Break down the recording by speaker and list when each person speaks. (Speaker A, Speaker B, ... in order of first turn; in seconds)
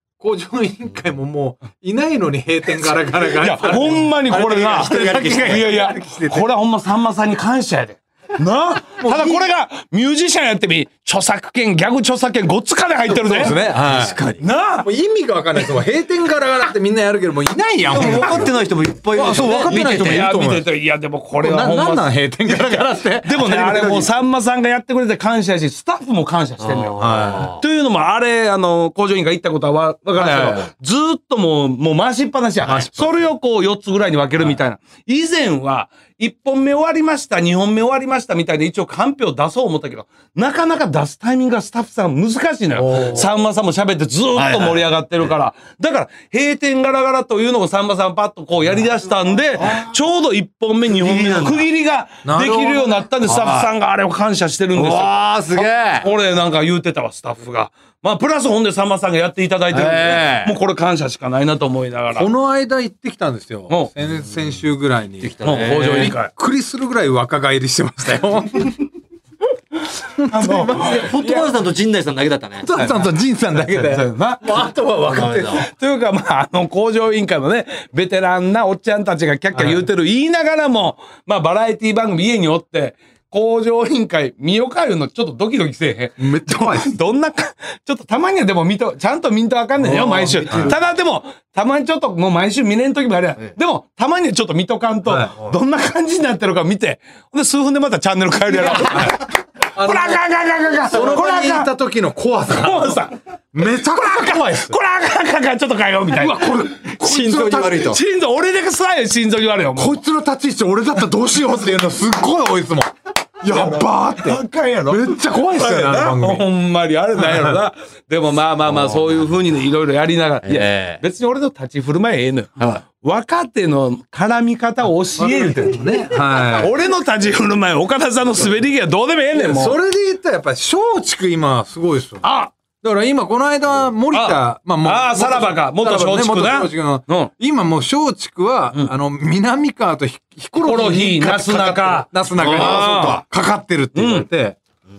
Speaker A: 0.2-6.4, 9.0-9.5, 13.1-14.2, 14.8-18.5, 19.1-20.7, 21.4-24.1, 27.0-27.5, 30.2-30.7, 32.6-33.1, 42.9-43.2, 52.2-53.1, 62.1-68.9, 70.2-71.1, 72.6-75.7, 79.5-79.8, 86.2-86.9, 89.8-90.7, 95.0-95.3, 98.5-99.2, 99.7-100.2, 100.9-103.0, 103.5-104.8, 106.1-108.0, 109.8-116.4, 117.2-117.6, 125.1-126.7, 129.3-132.2, 132.8-144.6
Speaker B: 3.4-13.6, 14.4-14.9, 19.6-62.3, 65.4-66.3, 70.3-71.5, 73.5-74.4, 75.6-101.7, 102.5-103.2, 104.0-106.9, 107.4-110.0, 113.5-125.8, 126.5-129.8, 132.2-132.5, 134.1-137.3, 140.6-143.2, 143.9-144.3
Speaker C: 4.3-5.7, 13.6-14.4, 17.9-20.3, 26.6-27.6, 42.9-43.2, 44.3-45.3, 49.6-50.0, 50.9-51.6, 53.2-53.7, 54.7-56.1, 59.7-60.5, 65.2-66.1, 70.7-72.7, 75.1-75.7, 89.8-90.9, 107.0-108.0, 118.7-119.2, 120.4-121.0, 142.4-143.2